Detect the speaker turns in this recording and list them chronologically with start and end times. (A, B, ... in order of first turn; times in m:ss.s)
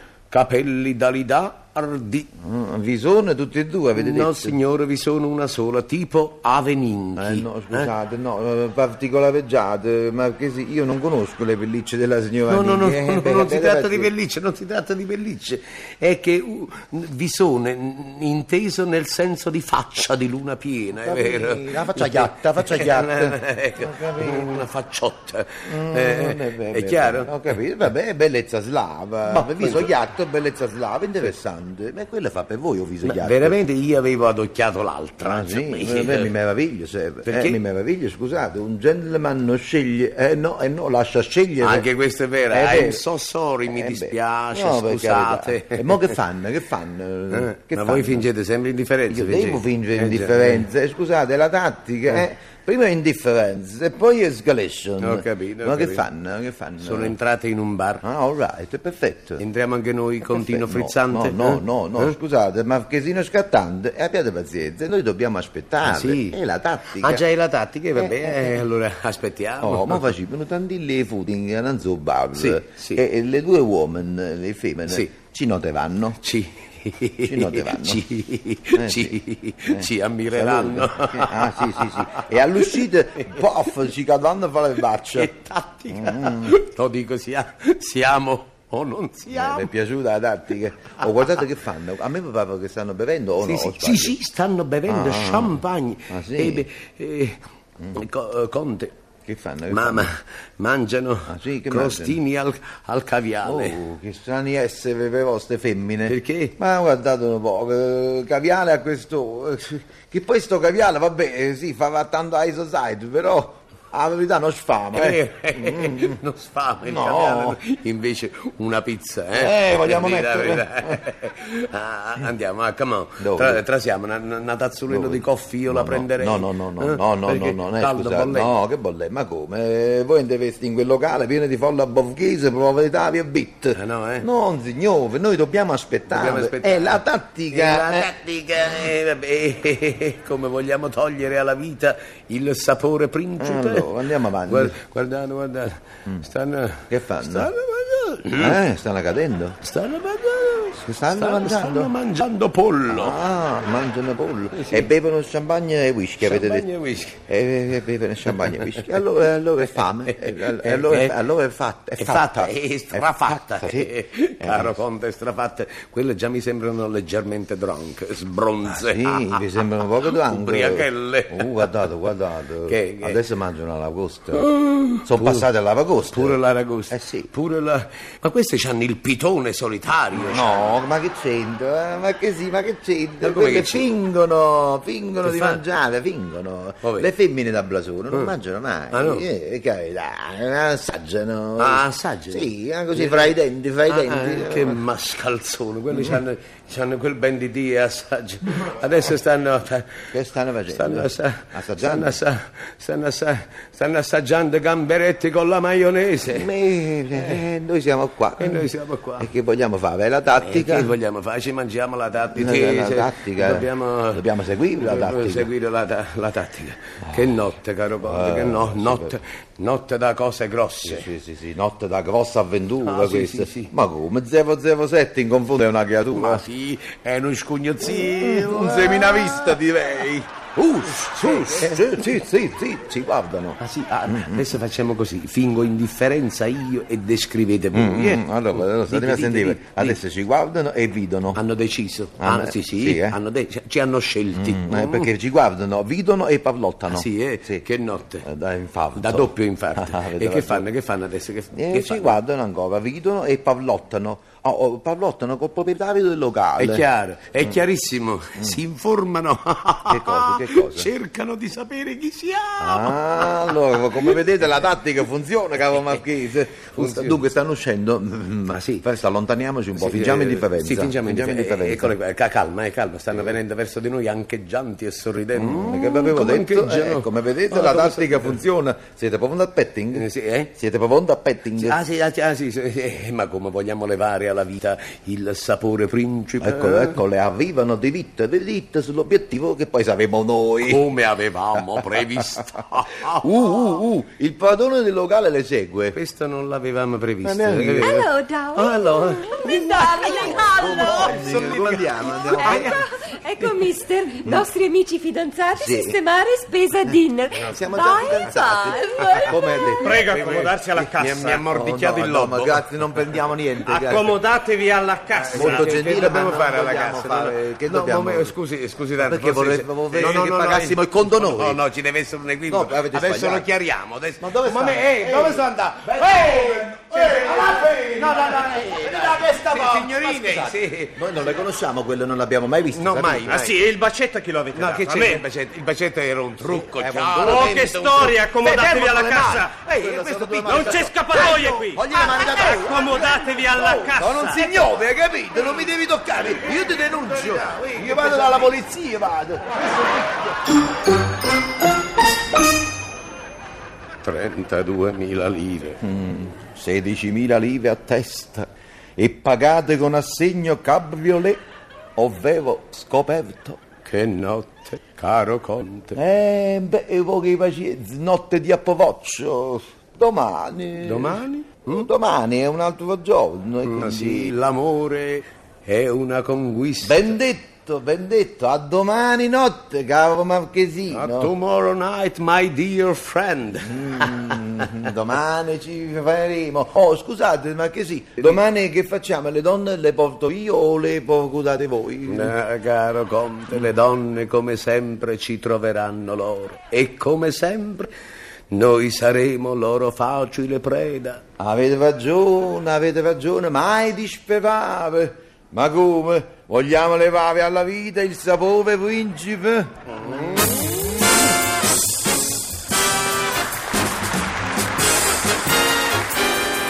0:00.3-0:02.3 A
0:02.4-0:04.6 B
0:03.9-0:07.9 A
0:07.2-0:14.1 B
0:12.5-0:27.6 A
0:21.0-0:24.7 B
0:25.6-0:33.6 B
0:29.3-0:29.9 A
0:33.0-0:36.3 A
0:35.2-0:41.9 B
0:37.2-0:37.6 A
0:41.6-0:46.2 A
0:42.5-0:43.0 B
0:43.7-0:48.3 B
0:47.3-0:50.7 A
0:49.1-0:57.1 B
0:55.0-0:56.0 A
0:56.8-0:58.0 A
0:58.0-0:59.4 B
0:59.4-1:02.2 A
1:00.3-1:07.2 B
1:05.8-1:06.4 A
1:06.9-1:10.1 A
1:07.9-1:08.6 B
1:09.6-1:16.2 B
1:12.3-1:13.0 A
1:16.2-1:23.4 A
1:17.2-1:18.0 B
1:18.7-1:25.3 B
1:25.1-1:29.7 A
1:25.9-1:26.6 B
1:29.3-1:34.2 B
1:31.0-1:31.4 A
1:33.4-1:37.4 A
1:34.9-1:36.6 B
1:37.9-1:38.9 A
1:39.2-1:40.1 B
1:39.7-1:43.8 A
1:41.3-1:42.2 B
1:43.4-1:56.2 B
1:46.1-1:46.6 A
1:54.9-2:08.5 A
1:56.8-1:57.6 B
1:59.3-2:01.0 B
2:03.2-2:03.6 B
2:04.9-2:18.1 B
2:13.7-2:14.3 A
2:16.1-2:28.6 A
2:23.4-2:24.8 B
2:26.9-2:27.5 B
2:28.3-2:29.6 B
2:29.6-2:33.2 A
2:30.7-2:31.9 B
2:32.9-2:44.8 B
2:34.5-2:34.9 A
2:36.2-2:37.2 A
2:38.3-2:39.0 A
2:39.7-2:41.2 A
2:42.0-2:51.8 A
2:48.6-2:54.5 B
2:52.7-2:53.2 A
2:54.4-2:55.5 A
2:55.0-2:56.4 B
2:56.1-3:00.8 A
2:56.9-2:57.3 B
3:00.1-3:14.8 B
3:03.2-3:03.8 A
3:05.2-3:05.6 A
3:06.8-3:07.1 A
3:08.9-3:09.3 A
3:11.6-3:13.3 A
3:13.9-3:19.9 A
3:15.9-3:16.2 B
3:20.1-3:22.2 B
3:20.7-3:26.5 A
3:26.3-3:30.9 B
3:27.1-3:27.4 A
3:28.4-3:29.3 A
3:30.3-3:41.1 A
3:32.3-3:35.5 B
3:38.0-3:39.2 B
3:40.8-3:46.4 B
3:42.8-3:43.7 A
3:46.1-3:49.6 A
3:47.8-3:54.5 B
3:50.6-3:52.1 A
3:53.6-4:00.0 A
3:57.7-4:01.4 B
4:01.3-4:05.1 A
4:02.2-4:03.2 B
4:04.3-4:07.6 B
4:06.9-4:08.2 A
4:08.2-4:10.6 B
4:08.9-4:12.2 A
4:11.5-4:16.8 B
4:16.6-4:24.2 A
4:19.9-4:20.9 B
4:22.6-4:31.9 B
4:26.7-4:27.2 A
4:28.5-4:28.8 A
4:29.8-4:38.4 A
4:35.3-4:41.8 B
4:39.9-4:40.5 A
4:41.6-4:47.0 A
4:46.4-4:50.9 B
4:50.6-4:53.3 A
4:51.9-4:52.2 B
4:53.2-4:56.0 B
4:55.9-5:02.8 A
4:57.2-4:58.1 B
4:57.7-5:01.5 C
5:00.1-5:02.8 B
5:02.1-5:09.9 C
5:05.5-5:06.0 B
5:06.8-5:10.0 B
5:09.0-5:09.3 A
5:09.8-5:12.0 D
5:09.9-5:13.2 A
5:11.5-5:14.2 B
5:13.6-5:15.9 D
5:15.2-5:31.1 A
5:15.3-5:18.3 B
5:19.0-5:21.6 B
5:22.5-5:23.5 B
5:24.2-5:33.4 B
5:32.7-5:33.6 A
5:33.3-5:35.2 D
5:34.5-5:40.9 A
5:36.4-5:50.1 B
5:37.2-5:39.5 D
5:40.4-5:44.4 D
5:47.3-5:48.5 A
5:54.0-5:55.8 A
5:55.8-6:01.4 B
6:02.0-6:03.6 B
6:03.8-6:06.0 A
6:05.9-6:14.3 B
6:10.8-6:11.9 A
6:13.6-6:17.1 A
6:16.8-6:21.3 B
6:20.9-6:24.9 A
6:23.6-6:32.3 B
6:32.0-6:37.9 A
6:38.5-6:41.2 A
6:41.4-6:49.7 B
6:50.0-6:50.5 A